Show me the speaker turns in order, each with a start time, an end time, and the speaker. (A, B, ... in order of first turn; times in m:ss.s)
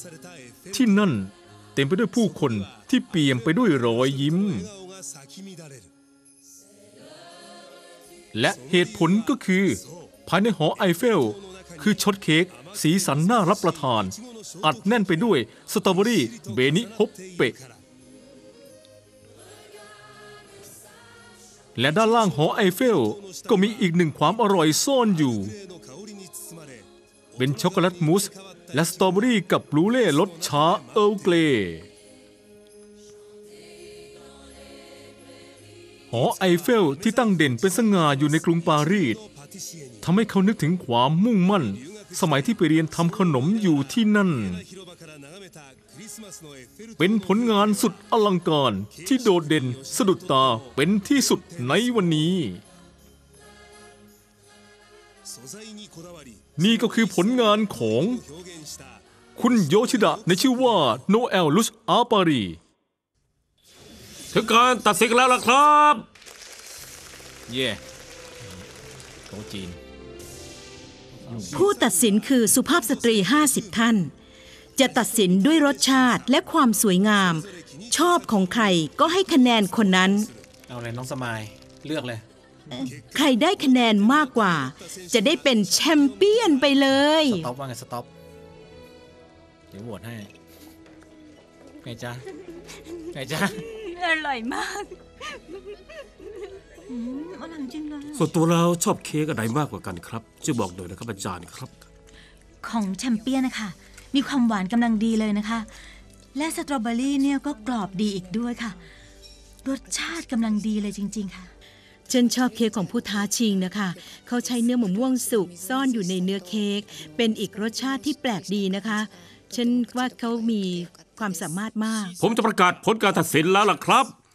0:00.7-0:04.7 A
0:08.3-0:17.6 A
0:21.8-0:25.5 A
0:27.4-0:31.9 A
0:36.1-0:39.2 A
0:40.0-0:44.6 A
0:47.0-0:52.6 A
0:56.6-0:58.2 A
0:59.4-1:02.6 A
1:04.3-1:06.0 B
1:07.5-1:07.8 C
1:09.3-1:09.8 C
1:11.2-1:11.6 C
1:11.5-1:14.1 D
1:14.8-1:20.3 D
1:20.7-1:22.2 C
1:22.7-1:27.5 D
1:27.3-1:28.1 C
1:29.7-1:30.3 C
1:31.8-1:32.2 C
1:33.1-1:33.6 C
1:34.0-1:34.8 D
1:36.9-1:38.2 E
1:38.1-1:41.7 B
1:42.6-1:45.7 E
1:46.3-1:48.8 E
1:49.6-1:51.5 E
1:52.1-2:02.1 D
2:02.2-2:04.1 B